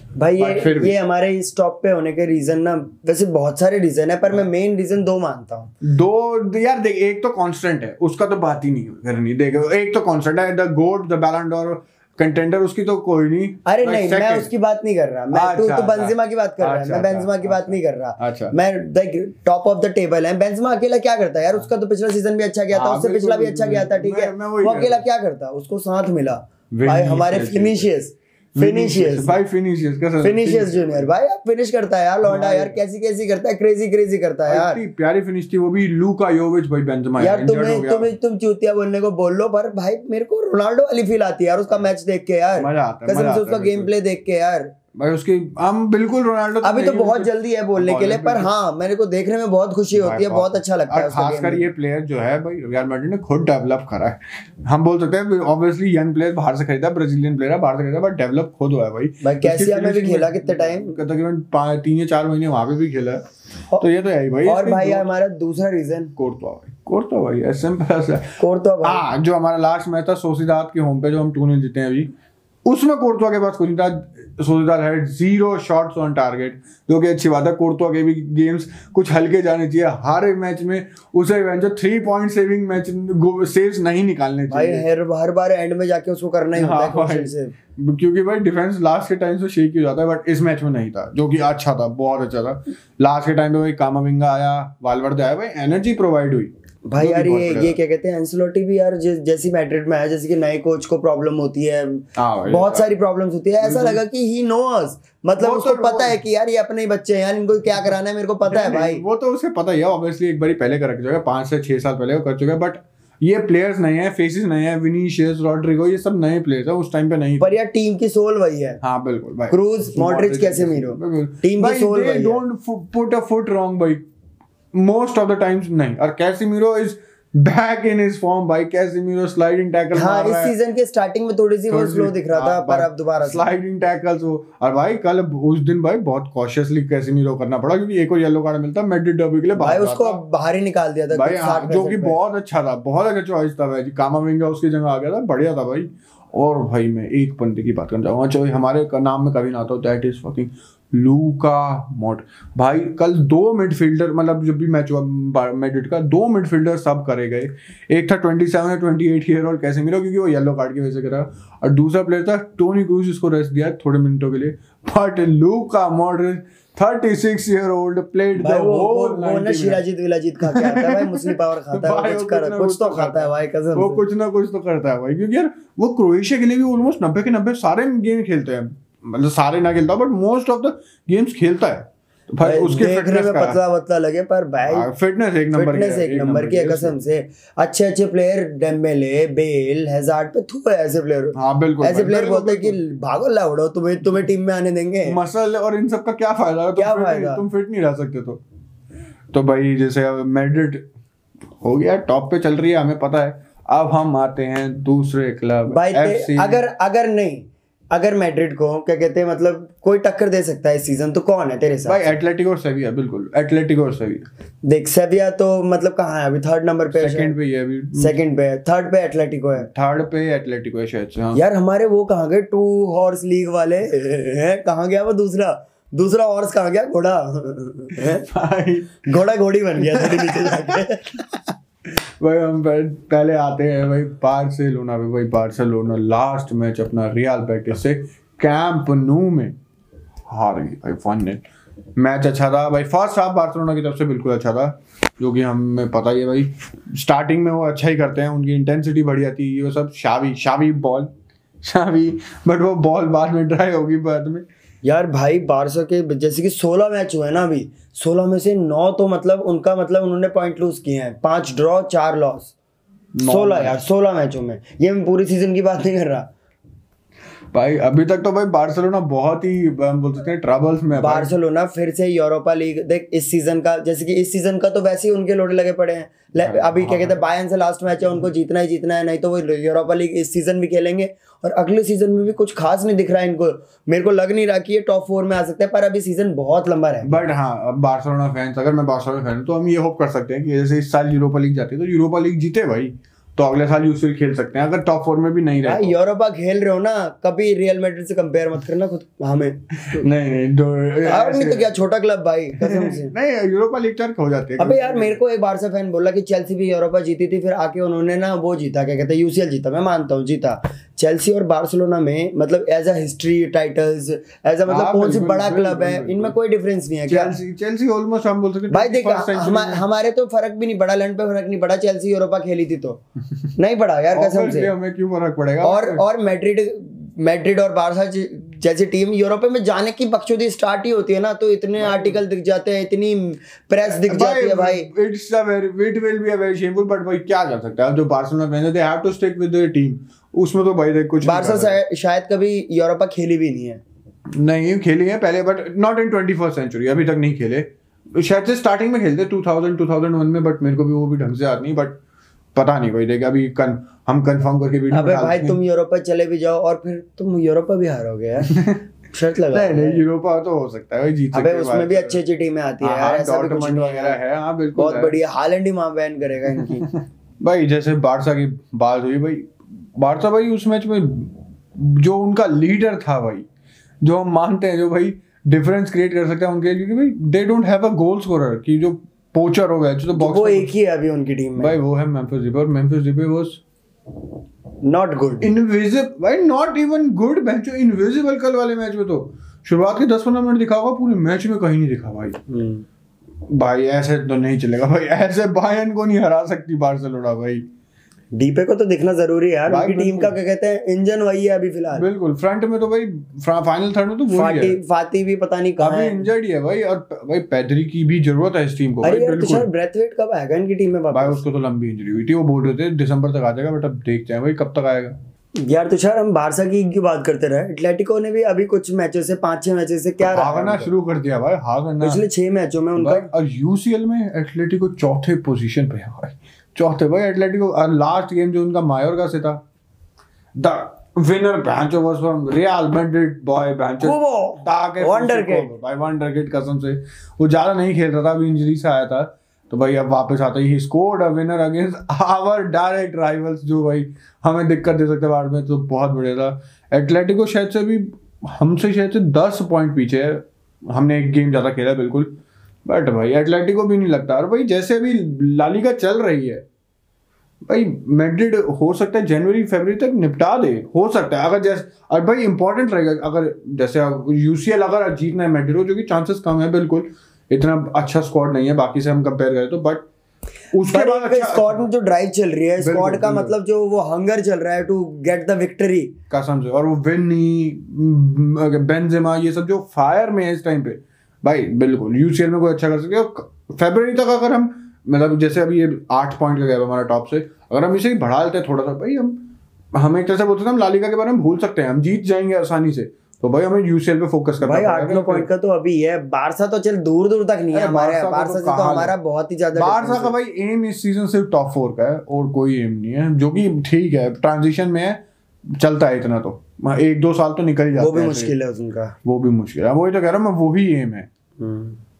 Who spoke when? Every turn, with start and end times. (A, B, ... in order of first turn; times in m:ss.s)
0:00.2-0:05.7 A
0:00.4-0:01.0 B
0:05.8-0:14.5 B
0:13.6-0:29.4 A
0:15.3-0:18.5 B
0:22.7-0:25.0 B
0:26.7-0:27.9 B
0:28.6-0:31.1 B
0:30.2-0:34.8 A
0:32.2-0:32.8 B
0:34.5-0:38.1 B
0:37.2-0:44.7 A
0:42.6-0:43.9 B
0:45.0-0:48.5 B
0:46.6-0:51.7 A
0:49.9-1:03.2 B
0:59.2-1:01.0 A
1:03.8-1:05.1 B
1:04.4-1:06.1 A
1:06.2-1:12.1 B
1:08.4-1:09.1 A
1:12.6-1:24.9 B
1:24.5-1:27.6 A
1:26.5-1:37.8 B
1:36.9-1:49.0 A
1:42.2-1:43.0 B
1:43.6-1:44.0 B
1:45.4-1:46.2 B
1:48.5-1:57.6 B
1:57.4-1:58.8 A
1:58.8-2:04.0 B
1:59.5-2:02.4 A
2:04.7-2:10.5 B
2:09.9-2:13.4 A
2:11.7-2:20.2 B
2:19.6-2:22.2 A
2:21.1-2:49.8 B
2:48.4-2:54.0 A
2:50.5-3:03.6 B
3:02.4-3:04.9 A
3:04.7-3:07.0 B
3:05.5-3:15.2 A
3:11.4-3:12.8 B
3:15.1-3:18.4 B
3:16.8-3:17.4 A
3:19.3-3:20.8 B
3:21.6-3:26.6 B
3:25.7-3:32.0 A
3:31.9-3:34.3 B
3:34.6-3:37.4 A
3:36.9-3:38.2 B
3:38.0-3:39.7 A
3:39.6-3:41.4 B
3:41.4-3:48.2 A
3:48.0-3:49.0 B
3:49.0-3:51.2 A
3:49.8-3:50.8 B
3:52.2-3:59.6 B
4:00.3-4:01.4 B
4:02.0-4:11.1 B
4:11.6-4:14.4 B
4:14.8-4:22.5 A
4:23.2-4:23.8 B
4:23.2-4:26.3 A
4:27.5-4:31.3 B
4:30.9-4:47.2 A
4:36.4-4:37.2 B
4:47.0-4:56.0 B
4:55.6-5:00.0 A
5:00.0-5:01.7 B
5:01.1-5:03.1 A
5:02.6-5:05.2 B
5:04.6-5:17.4 A
5:14.7-5:16.4 B
5:17.1-5:19.8 B
5:18.7-5:23.0 A
5:23.6-5:24.7 A
5:24.1-5:26.0 B
5:25.6-5:34.9 A
5:31.8-5:32.2 B
5:33.8-5:41.8 B
5:41.2-5:43.8 A
5:44.3-5:52.0 B
5:52.6-5:55.6 B
5:54.9-5:58.6 A
5:58.5-5:58.8 B
5:59.1-6:00.0 A
5:59.5-6:02.2 B
6:01.3-6:04.2 A
6:02.8-6:05.2 B
6:04.8-6:06.9 A
6:06.6-6:13.4 B
6:14.0-6:20.7 B
6:20.2-6:21.8 A
6:21.6-6:23.6 B
6:24.8-6:25.5 A
6:25.4-6:32.4 B
6:32.5-6:32.8 A
6:33.5-6:37.7 B
6:38.4-6:42.1 A
6:39.7-6:40.4 B
6:41.9-6:44.8 B
6:44.3-6:46.3 A
6:45.8-6:49.7 B
6:49.0-6:51.4 A
6:51.1-6:55.2 B
6:55.6-7:00.9 A
7:00.3-7:02.2 B
7:02.0-7:03.3 A
7:03.0-7:09.6 B
7:10.6-7:32.4 B
7:14.0-7:15.7 A
7:32.9-7:36.6 B
7:37.6-7:50.1 B
7:50.7-7:51.8 B
7:50.9-7:56.2 A
7:52.8-7:53.5 B
7:56.3-8:09.4 B
8:09.9-8:15.5 B
8:14.6-8:20.4 A
8:17.7-8:19.1 B
8:19.8-8:25.2 B
8:25.8-8:28.5 B
8:28.0-8:29.2 A
8:29.2-8:31.3 B
8:31.6-8:32.0 A